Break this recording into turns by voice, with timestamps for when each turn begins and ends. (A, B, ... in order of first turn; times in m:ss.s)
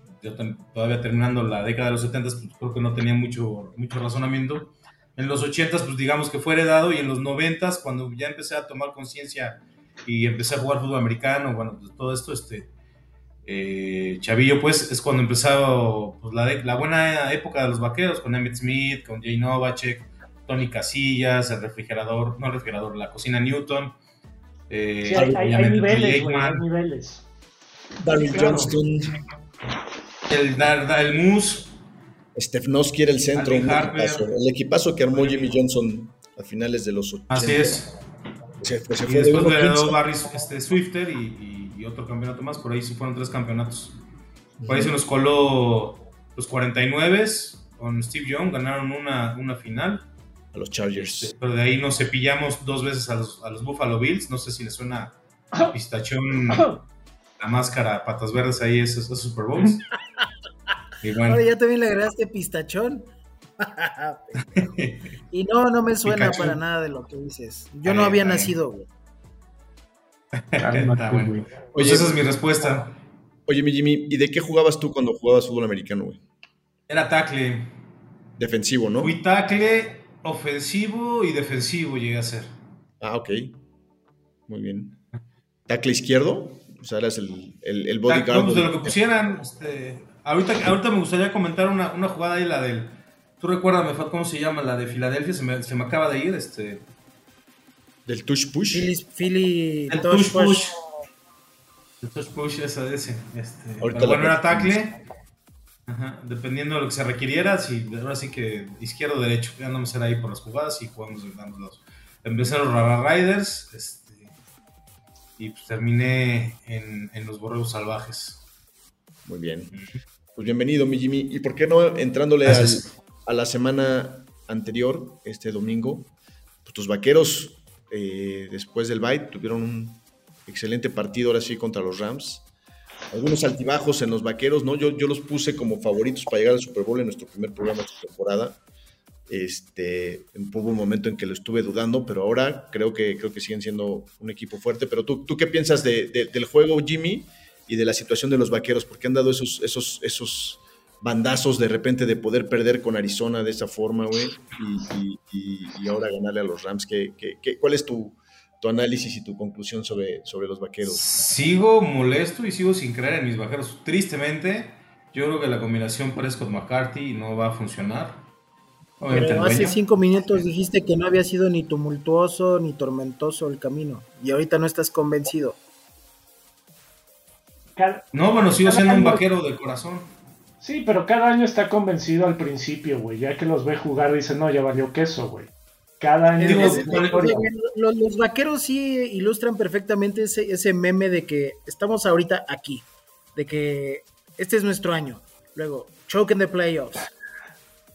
0:00.2-0:12.7 A
0:13.4-0:23.9 A
0:24.7-0:26.6 A
0:25.0-0:27.2 B
0:25.1-0:25.4 C
0:28.0-0:29.2 C
0:28.2-0:28.7 B
0:30.3-0:31.7 A
0:32.4-0:37.8 C
0:33.3-0:34.3 A
0:35.1-0:35.6 A
0:37.3-0:37.9 A
0:38.6-0:40.0 C
0:39.0-0:44.0 A
0:44.6-0:44.9 C
0:44.7-0:50.1 A
0:50.5-0:51.3 C
0:50.9-0:56.7 A
0:56.5-0:56.8 B
0:57.4-0:59.8 A
1:01.0-1:01.4 A
1:01.2-1:04.7 D
1:04.5-1:05.0 A
1:05.3-1:08.9 D
1:06.0-1:06.6 A
1:07.8-1:08.6 A
1:10.4-1:12.9 A
1:10.6-1:11.4 B
1:11.7-1:12.1 C
1:13.5-1:16.2 C
1:16.9-1:17.7 A
1:18.4-1:19.2 C
1:19.0-1:22.6 A
1:23.0-1:23.6 C
1:24.5-1:25.0 C
1:25.7-1:29.0 C
1:28.1-1:36.8 A
1:38.1-1:38.9 C
1:38.7-1:40.8 D
1:39.9-1:40.8 A
1:42.0-1:44.9 A
1:43.8-1:44.9 C
1:45.9-1:54.4 A
1:55.4-1:58.4 A
1:59.2-1:59.7 C
2:00.4-2:06.1 C
2:02.4-2:02.9 A
2:06.6-2:12.5 C
2:13.1-2:18.6 C
2:19.3-2:41.0 C
2:40.8-2:48.2 A
2:49.0-2:49.8 A
2:49.1-2:55.6 D
2:57.8-2:58.1 B
2:58.1-3:00.1 A
2:58.6-2:59.2 B
3:00.6-3:07.4 B
3:06.4-3:17.1 D
3:06.4-3:07.5 A